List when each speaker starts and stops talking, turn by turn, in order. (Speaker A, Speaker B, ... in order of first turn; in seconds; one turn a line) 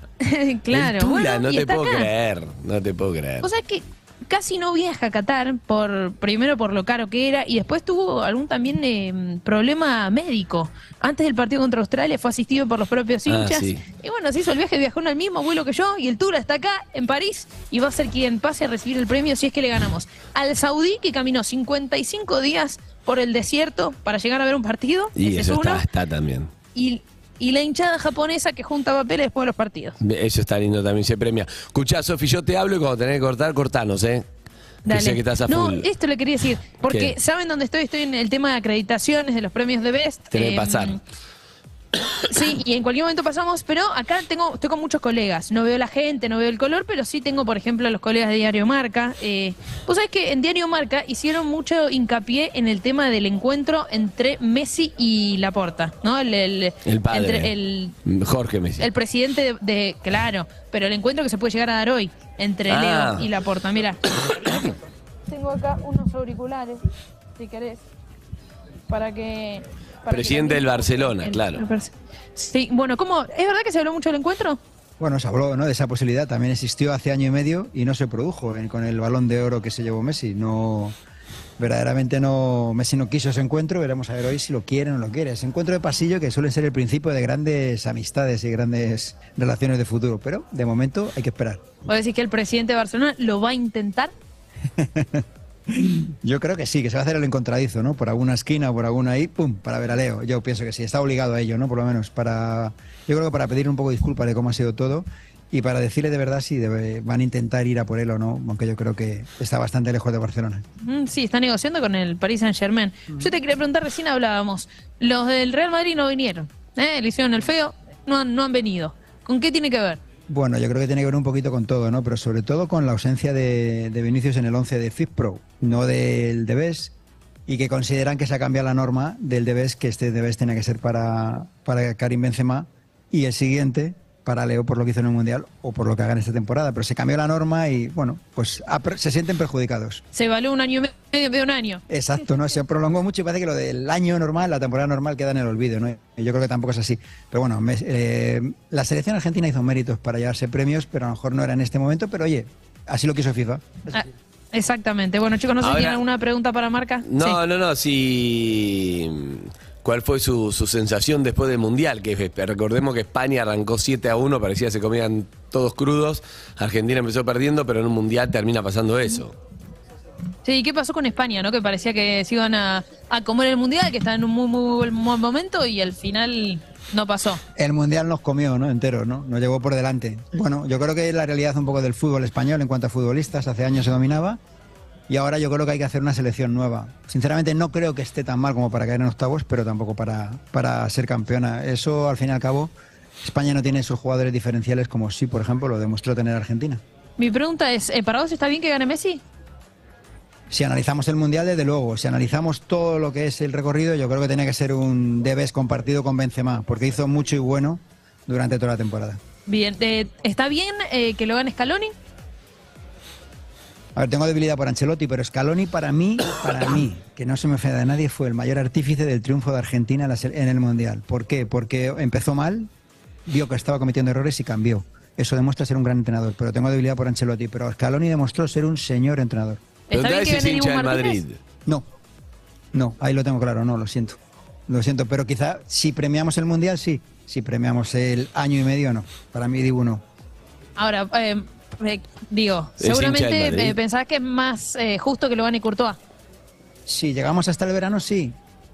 Speaker A: 0.2-2.1
Speaker B: 0.7-3.5
Speaker A: 3.4-25.9
Speaker B: 13.3-13.8
Speaker B: 25.2-26.5
Speaker A: 26.7-30.0
Speaker B: 30.0-34.3
Speaker A: 34.9-41.0
Speaker B: 34.9-35.9
Speaker B: 36.9-37.1
Speaker B: 40.3-41.0
Speaker A: 42.2-58.0
Speaker B: 56.9-57.5
Speaker B: 58.0-58.9
Speaker A: 58.8-64.8
Speaker B: 62.7-63.3
Speaker A: 65.3-66.8
Speaker A: 67.4-67.8
Speaker A: 68.9-74.6
Speaker B: 70.1-71.6
Speaker C: 75.0-80.9
Speaker C: 81.6-91.6
Speaker A: 91.9-94.1
Speaker C: 94.8-110.6
Speaker A: 110.8-120.0
Speaker C: 120.3-126.9
Speaker C: 127.5-140.0
Speaker A: 140.1-141.8
Speaker C: 141.9-154.1
Speaker A: 153.9-157.4
Speaker B: 155.6-156.0
Speaker B: 157.1-169.3
Speaker A: 170.4-177.4
Speaker C: 177.6-184.4
Speaker C: 185.1-196.8
Speaker A: 197.2-199.2
Speaker C: 200.5-209.2
Speaker A: 209.5-211.9
Speaker C: 214.0-222.7
Speaker C: 223.3-229.6
Speaker A: 229.9-231.2
Speaker B: 229.9-231.4
Speaker C: 232.7-240.0
Speaker A: 240.8-246.0
Speaker B: 242.8-243.8
Speaker C: 246.9-248.4